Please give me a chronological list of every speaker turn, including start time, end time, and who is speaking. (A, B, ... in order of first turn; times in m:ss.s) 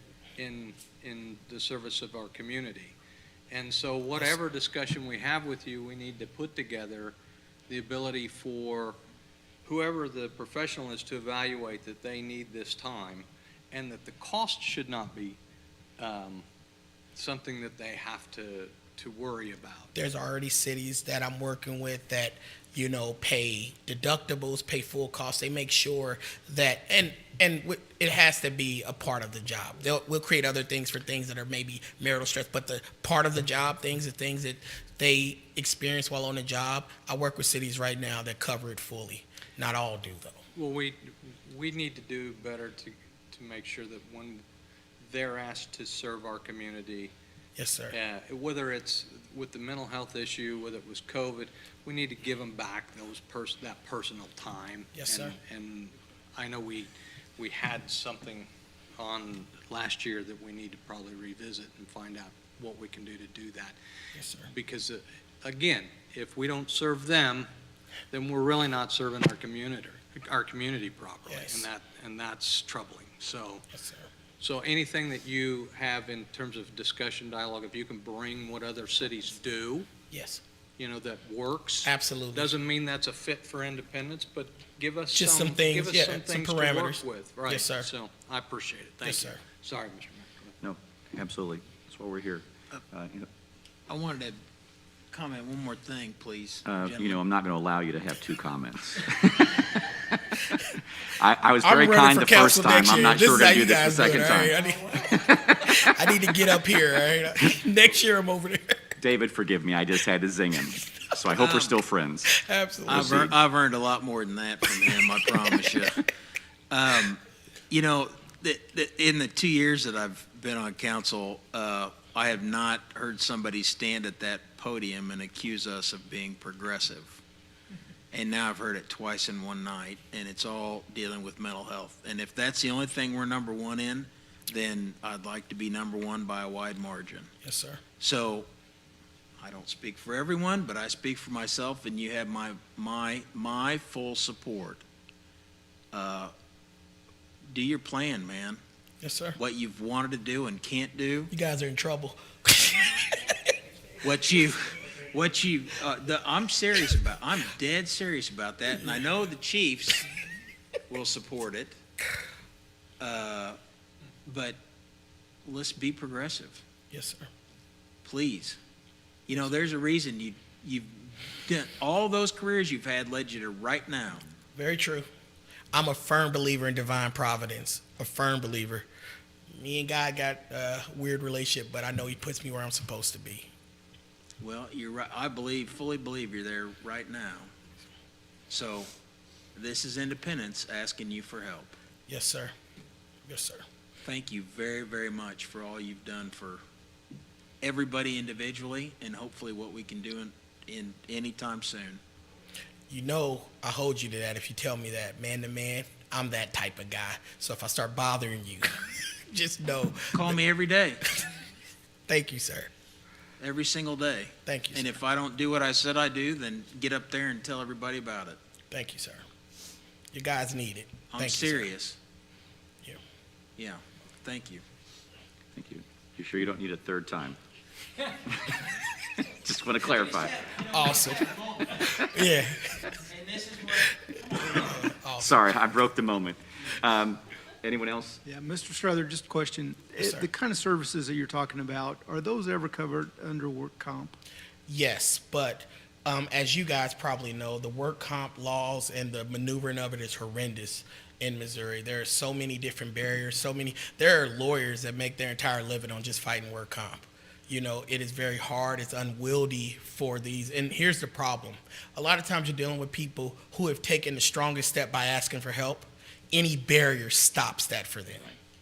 0:00.4-0:03.0 A
0:03.5-0:07.1 A
0:07.7-0:09.0 A
0:09.6-0:15.4 A
0:16.0-0:16.4 A
0:17.1-0:19.9 A
0:19.9-0:40.4 B
0:40.5-0:44.4 A
0:45.0-0:47.1 A
0:47.6-0:48.0 B
0:47.9-1:03.8 A
0:54.9-0:55.4 B
1:04.2-1:04.5 B
1:04.4-1:07.5 A
1:08.1-1:13.6 A
1:11.3-1:11.7 B
1:13.7-1:14.1 B
1:14.4-1:19.9 A
1:20.1-1:20.4 B
1:20.8-1:30.5 A
1:21.8-1:22.5 B
1:25.1-1:27.9 B
1:29.0-1:29.4 B
1:30.6-1:33.3 C
1:33.9-1:34.4 D
1:35.1-1:37.2 D
1:36.6-1:40.2 C
1:41.1-1:44.5 C
1:41.6-1:48.7 B
1:49.0-1:52.3 C
1:51.4-1:51.8 D
1:52.3-1:53.3 B
1:52.9-1:56.0 D
1:52.9-1:53.3 C
1:56.7-2:07.2 D
2:08.1-2:17.3 D
2:17.4-2:17.8 B
2:18.0-2:18.5 D
2:19.4-2:24.8 D
2:25.9-2:26.3 D
2:27.5-2:28.6 D
2:29.0-2:29.4 B
2:29.4-2:31.3 D
2:31.3-2:33.4 B
2:34.0-2:40.1 D
2:40.9-2:41.7 D
2:43.0-2:43.6 D
2:44.2-2:44.6 D
2:45.4-2:46.6 D
2:46.9-2:47.3 B
2:48.0-2:48.6 D
2:49.3-2:54.2 D
2:54.5-2:55.0 B
2:55.7-2:58.9 B
2:59.5-3:03.5 B
3:04.4-3:07.5 D
3:08.5-3:08.9 D
3:09.5-3:11.8 D
3:12.1-3:12.5 B
3:13.3-3:13.6 B
3:14.0-3:16.6 D
3:17.6-3:22.0 D
3:22.9-3:30.4 B
3:30.1-3:31.0 D
3:32.1-3:32.7 B
3:33.4-3:38.4 D
3:34.4-3:35.0 B
3:38.7-3:39.2 B
3:40.1-3:41.7 B
3:41.1-3:42.0 D
3:43.6-3:44.6 D
3:45.5-3:47.4 C
3:48.3-3:48.6 C
3:49.3-3:50.5 C
3:50.6-3:53.1 B
3:53.3-3:53.6 D
3:53.7-3:55.5 B
3:55.2-3:58.2 C
3:58.2-4:04.2 E
4:00.0-4:00.2 B
4:04.7-4:28.3 B